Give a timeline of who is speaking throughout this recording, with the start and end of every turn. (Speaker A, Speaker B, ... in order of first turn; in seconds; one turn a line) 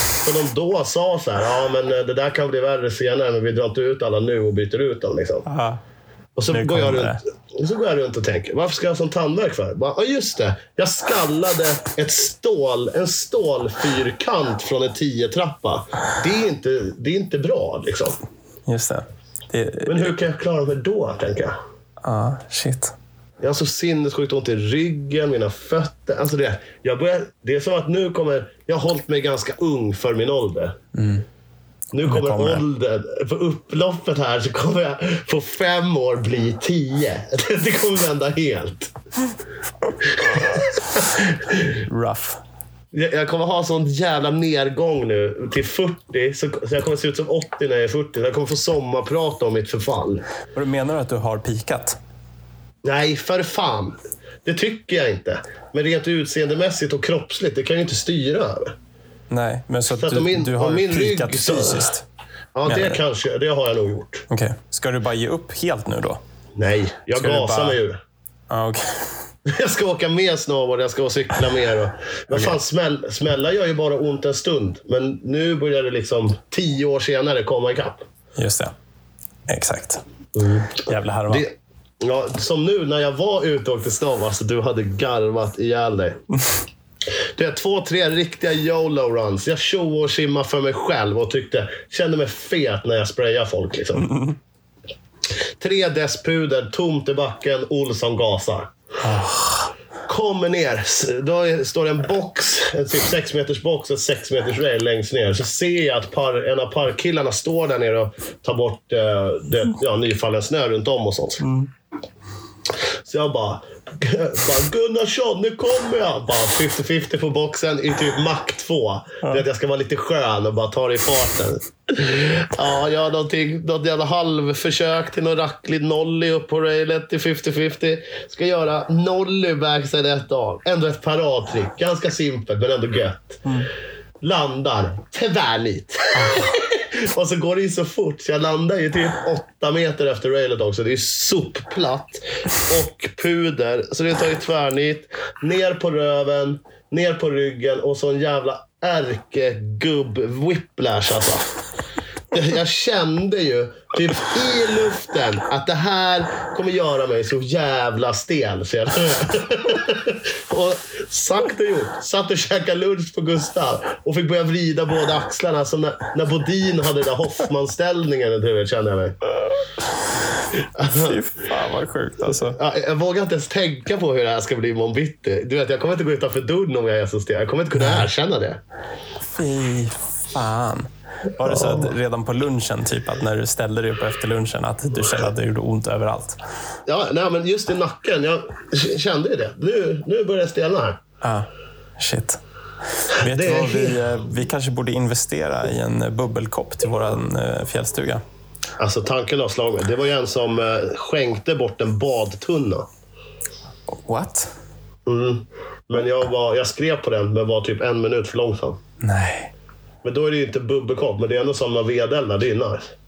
Speaker A: 0.2-5.5
Speaker B: 5.5-5.8
Speaker A: 6.4-18.2
Speaker B: 6.5-7.2
Speaker B: 18.7-20.2
Speaker A: 19.9-21.6
Speaker B: 22.0-22.9
Speaker A: 23.4-30.8
Speaker B: 30.9-31.3
Speaker A: 31.9-38.9
Speaker B: 32.0-32.6
Speaker A: 40.0-41.8
Speaker B: 41.8-42.4
Speaker A: 42.9-50.3
Speaker B: 50.5-52.0
Speaker A: 52.8-58.8
Speaker B: 59.3-62.0
Speaker A: 60.0-61.9
Speaker A: 62.5-64.3
Speaker B: 62.7-63.0
Speaker B: 64.3-66.2
Speaker A: 66.6-68.0
Speaker B: 67.2-67.8
Speaker B: 68.5-69.1
Speaker A: 69.5-78.0
Speaker B: 72.3-72.6
Speaker B: 78.4-78.7
Speaker B: 79.5-80.0
Speaker A: 80.3-86.2
Speaker B: 80.9-81.5
Speaker A: 87.4-94.1
Speaker B: 94.0-94.4
Speaker A: 95.6-98.7
Speaker B: 99.0-99.7
Speaker A: 100.1-111.5
Speaker B: 111.4-111.7
Speaker A: 113.1-133.4
Speaker A: 134.2-151.5
Speaker B: 136.1-136.5
Speaker A: 152.3-169.2
Speaker A: 170.7-171.2
Speaker B: 170.8-172.6
Speaker A: 172.5-178.6
Speaker B: 177.7-178.1
Speaker B: 179.2-186.4
Speaker A: 181.4-181.9
Speaker A: 186.9-191.0
Speaker B: 191.2-191.5
Speaker B: 192.0-192.4
Speaker B: 193.0-198.2
Speaker A: 193.2-194.0
Speaker A: 198.8-202.9
Speaker B: 203.9-204.5
Speaker A: 205.1-208.8
Speaker B: 209.0-209.5
Speaker A: 210.0-212.9